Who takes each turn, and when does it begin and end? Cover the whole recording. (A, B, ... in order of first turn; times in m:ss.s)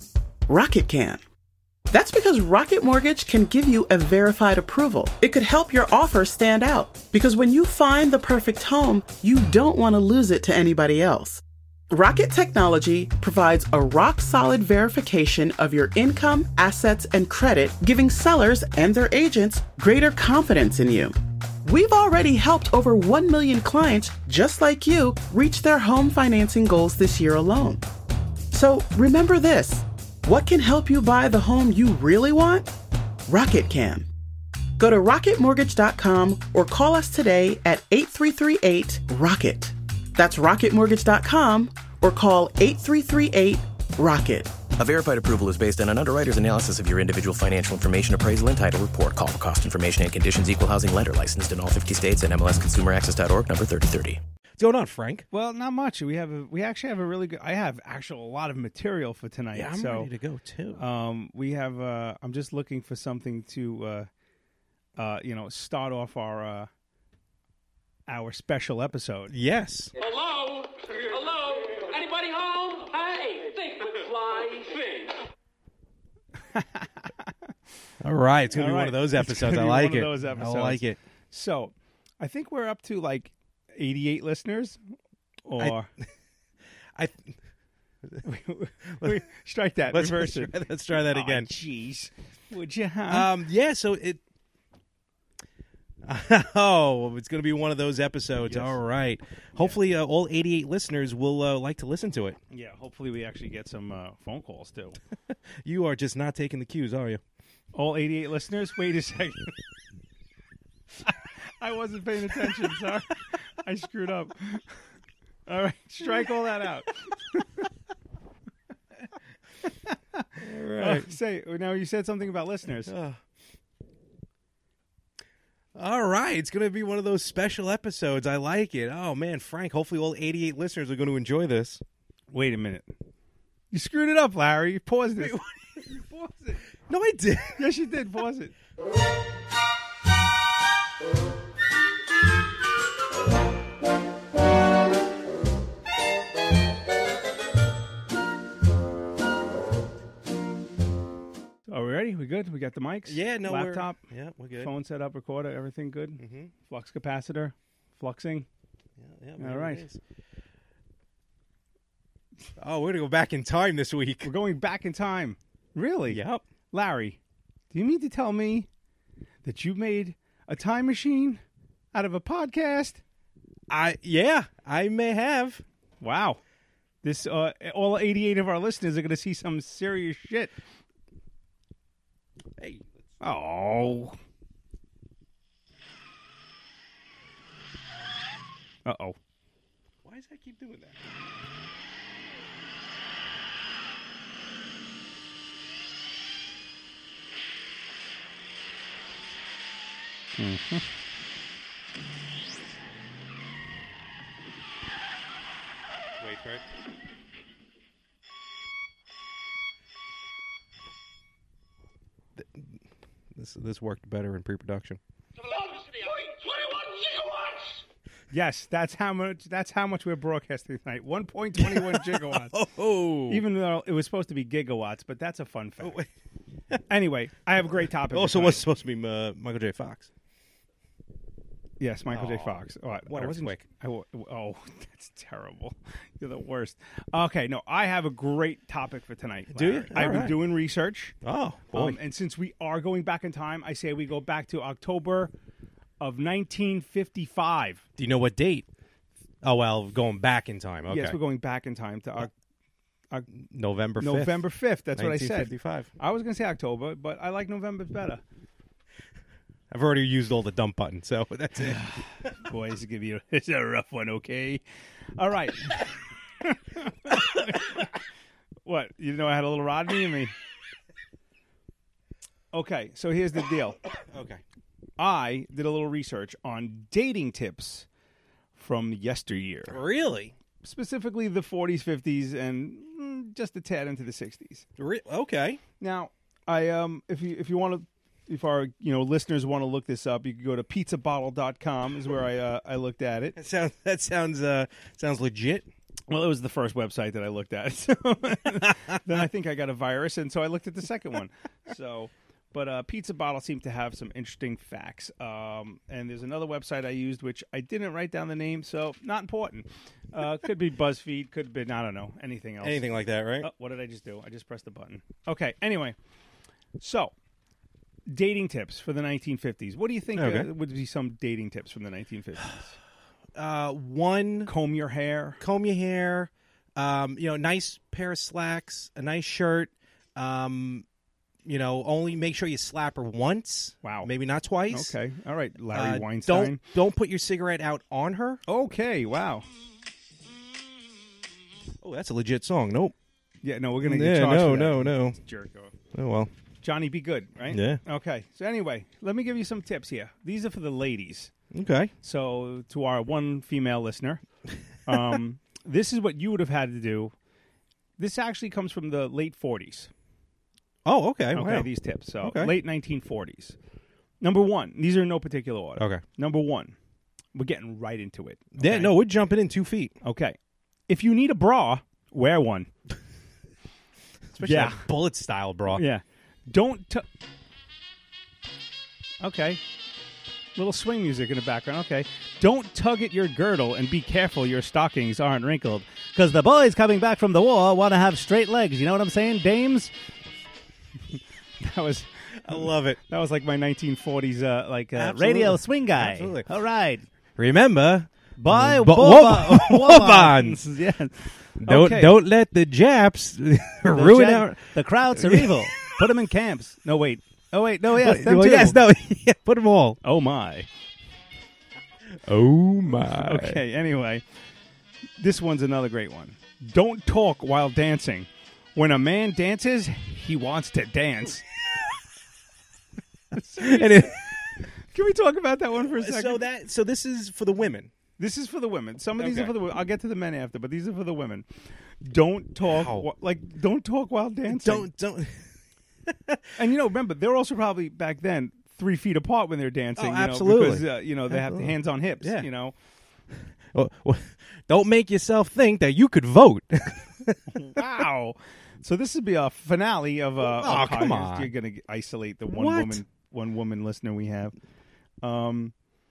0:00.5-0:01.2 A
0:01.9-0:27.8 A
0:28.5-0:32.7 A
0:33.3-0:34.1 A
0:34.8-0:44.6 A
0:44.8-0:54.2 B
0:54.6-0:55.3 C
0:55.3-1:00.1 D
0:59.5-1:00.8 C
1:00.7-1:04.1 D
1:05.0-1:06.7 D
1:08.1-1:09.3 D
1:09.3-1:09.9 C
1:10.0-1:15.1 E
1:16.5-1:17.1 D
1:18.0-1:21.0 C
1:18.5-1:24.8 D
1:25.5-1:25.9 D
1:27.0-1:27.4 C
1:28.2-1:33.3 D
1:28.9-1:29.2 C
1:29.9-1:31.5 C
1:33.1-1:34.2 C
1:36.0-1:42.4 C
1:38.4-1:38.8 D
1:42.5-1:45.0 D
1:45.6-1:47.2 C
1:47.8-1:49.6 D
1:51.6-1:54.7 D
1:55.5-1:57.5 D
1:59.9-2:00.2 D
2:00.4-2:01.1 C
2:00.8-2:02.9 D
2:02.9-2:03.2 C
2:05.8-2:11.8 C
2:12.3-2:12.9 D
2:13.7-2:16.6 D
2:15.2-2:15.5 C
2:16.9-2:17.6 C
2:17.6-2:18.5 D
2:31.7-2:34.0 D
2:33.1-2:34.7 C
2:34.6-2:38.5 D
2:36.2-2:36.5 C
2:39.0-2:40.0 C
2:39.4-2:39.8 D
2:42.6-2:44.3 C
2:44.2-2:47.2 D
2:46.1-2:46.4 C
2:47.7-2:48.7 D
2:49.4-2:51.4 D
2:51.9-2:53.0 D
2:53.7-2:55.6 C
2:56.0-2:56.4 D
2:57.0-3:00.5 D
3:02.6-3:03.1 C
3:03.2-3:04.2 D
3:08.9-3:09.2 D
3:10.0-3:11.0 C
3:20.4-3:20.8 D
3:26.2-3:26.6 C
3:32.4-3:32.8 C
3:33.4-3:35.0 C
3:36.3-3:37.2 E
3:38.3-3:42.6 D
3:41.6-3:43.4 C
3:43.3-3:46.0 D
3:45.8-3:46.1 C
3:46.9-3:48.6 D
3:48.1-3:50.1 C
3:51.8-4:01.2 D
3:52.1-3:53.6 C
3:59.5-4:00.5 C
4:01.2-4:02.0 C
4:01.7-4:05.3 D
4:06.0-4:07.8 D
4:08.0-4:08.7 C
4:09.4-4:11.2 C
4:10.9-4:12.3 D
4:13.3-4:15.9 C
4:14.0-4:18.2 D
4:19.7-4:21.8 C
4:21.6-4:24.6 D
4:25.2-4:25.8 D
4:26.4-4:27.9 D
4:28.6-4:30.3 D
4:32.5-4:33.8 D
4:34.0-4:34.4 C
4:35.0-4:37.9 D
4:38.6-4:39.8 D
4:39.7-4:40.3 C
4:40.6-4:44.6 D
4:44.8-4:45.6 C
4:45.8-4:53.4 D
4:53.4-4:55.7 C
4:56.1-5:16.0 D
5:12.6-5:13.5 C
5:16.8-5:17.1 D
5:18.1-5:22.8 D
5:20.2-5:20.5 C
5:23.4-5:24.5 C
5:24.5-5:25.4 D
5:25.4-5:30.8 C
5:31.4-5:35.0 C
5:33.8-5:34.1 D
5:34.7-5:36.6 D
5:35.7-5:38.4 C
5:38.5-5:39.4 D
5:41.8-5:42.9 C
5:43.4-5:45.7 D
5:43.8-5:45.2 C
5:45.9-5:46.3 C
5:46.6-5:51.3 D
5:47.5-5:47.8 C
5:51.5-5:51.9 C
5:52.0-5:54.2 D
5:54.9-5:57.2 D
5:58.0-5:59.9 D
6:00.8-6:01.7 C
6:01.3-6:03.6 D
6:02.2-6:02.6 C
6:04.2-6:06.8 D
6:05.8-6:06.0 C
6:07.4-6:09.0 D
6:08.6-6:10.0 C
6:10.0-6:10.4 D
6:10.9-6:12.7 D
6:14.3-6:15.8 C
6:14.4-6:14.8 D
6:15.7-6:17.1 D
6:19.2-6:19.6 D
6:20.6-6:29.9 D
6:31.1-6:37.1 D
6:32.4-6:33.0 C
6:35.0-6:36.5 C
6:37.4-6:40.6 C
6:38.4-6:42.2 D
6:41.6-6:45.8 C
6:43.9-6:48.8 D
6:47.9-6:50.0 C
6:50.0-6:50.7 D
6:52.1-6:53.6 C
6:53.0-6:54.2 D
6:55.2-7:01.4 D
7:03.3-7:04.2 D
7:03.6-7:04.4 C
7:04.8-7:06.4 D
7:05.8-7:07.9 C
7:08.2-7:11.5 D
7:09.2-7:09.6 C
7:12.0-7:14.9 D
7:12.6-7:13.1 C
7:14.5-7:15.5 C
7:16.1-7:16.4 C
7:16.6-7:22.8 D
7:20.0-7:22.5 C
7:23.7-7:27.8 C
7:27.5-7:34.6 D
7:30.4-7:31.5 C
7:32.5-7:33.0 C
7:35.2-7:35.7 D